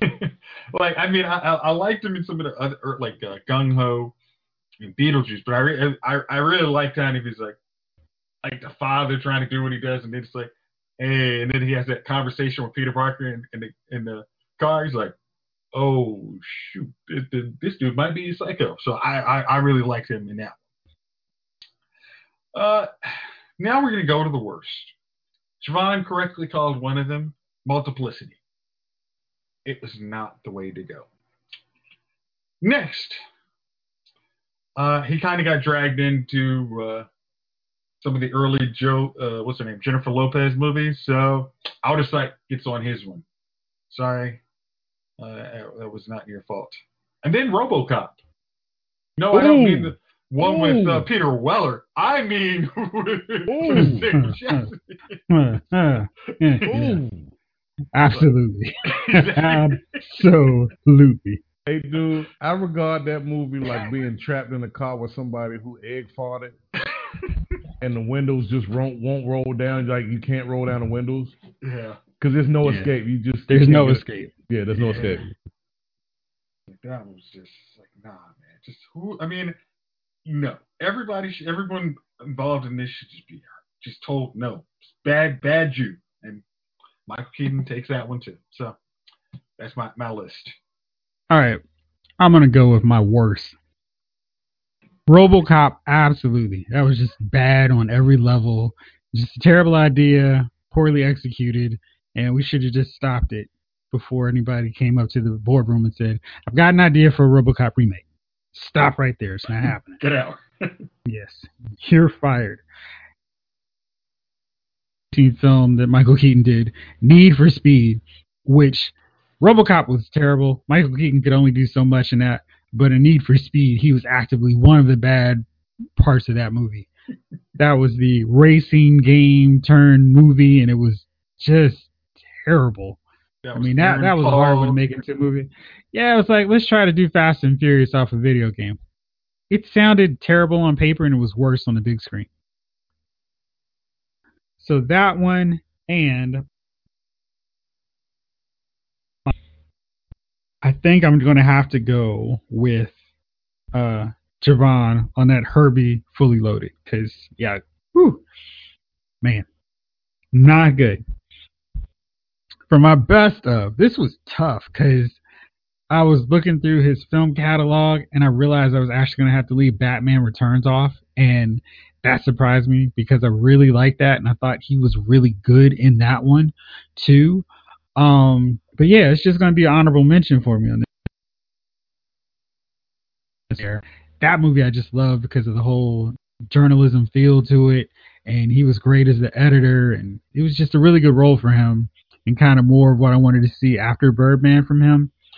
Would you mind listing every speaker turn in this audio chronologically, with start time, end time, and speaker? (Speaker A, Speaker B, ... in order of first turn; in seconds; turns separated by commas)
Speaker A: 0.7-4.1, Speaker A: 4.8-7.6, Speaker A: 8.4-15.1, Speaker A: 15.7-20.6, Speaker A: 22.5-22.9, Speaker A: 23.6-24.9, Speaker A: 25.6-28.4, Speaker A: 29.6-31.1, Speaker A: 32.6-33.2, Speaker A: 34.8-37.1, Speaker A: 38.0-43.2, Speaker A: 43.9-44.4, Speaker A: 45.2-48.2, Speaker A: 49.2-55.2, Speaker B: 49.3-51.1, Speaker B: 53.5-54.1, Speaker C: 53.7-54.7, Speaker C: 55.3-57.0, Speaker B: 56.7-57.4, Speaker C: 58.0-61.4, Speaker A: 58.9-60.0, Speaker B: 61.7-66.6, Speaker B: 67.8-71.4, Speaker A: 71.6-72.0, Speaker B: 72.2-75.2, Speaker C: 72.6-72.9, Speaker C: 73.5-74.3, Speaker A: 74.8-75.2, Speaker A: 76.7-79.5, Speaker A: 80.2-86.4, Speaker A: 87.1-88.8, Speaker A: 89.6-90.6, Speaker C: 91.3-91.6, Speaker C: 92.2-93.6, Speaker C: 95.1-110.0, Speaker A: 109.6-110.4, Speaker C: 111.1-112.6, Speaker C: 115.1-125.5, Speaker C: 126.0-126.9, Speaker C: 127.6-133.0, Speaker A: 133.4-134.8, Speaker C: 133.5-138.8, Speaker C: 139.5-142.3, Speaker C: 144.6-146.4, Speaker C: 150.6-153.0, Speaker C: 153.7-158.2, Speaker C: 160.3-161.0, Speaker C: 162.7-165.2, Speaker C: 165.9-180.9, Speaker C: 183.5-195.1